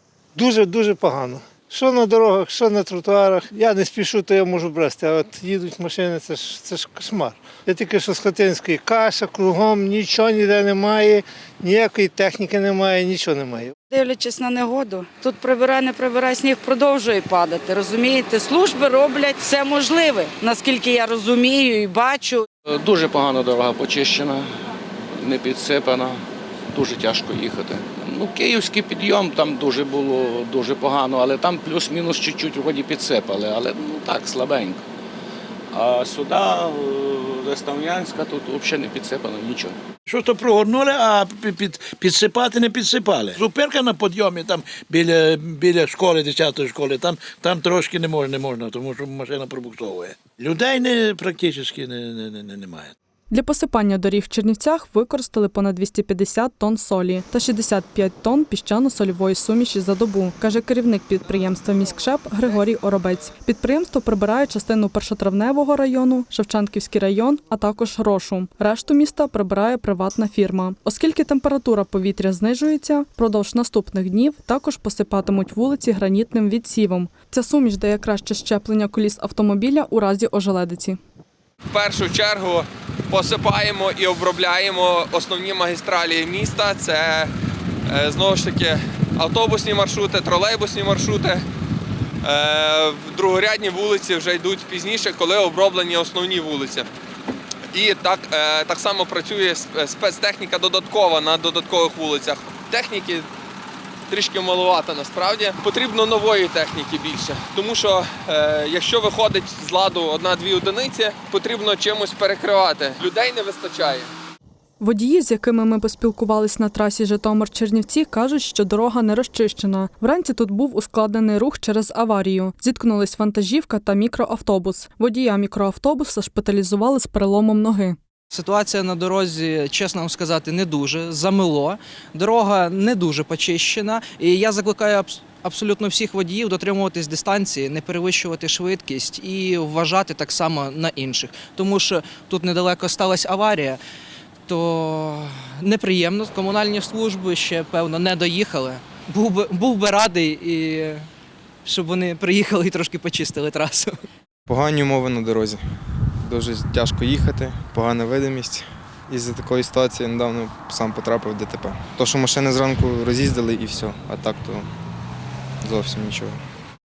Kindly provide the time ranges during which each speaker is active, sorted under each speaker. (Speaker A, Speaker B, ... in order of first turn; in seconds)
Speaker A: 0.3-13.7
Speaker B: 13.9-22.4
Speaker C: 22.7-24.5, 25.1-26.2, 26.7-34.8, 35.7-39.8
Speaker D: 40.1-52.9
Speaker E: 53.3-81.0, 114.8-128.0
Speaker F: 81.7-87.3, 87.9-91.4, 92.2-96.9, 97.7-103.3, 104.1-114.1
Speaker G: 128.3-143.8, 144.5-151.1, 151.7-153.9
Speaker H: 154.5-164.7, 165.6-166.4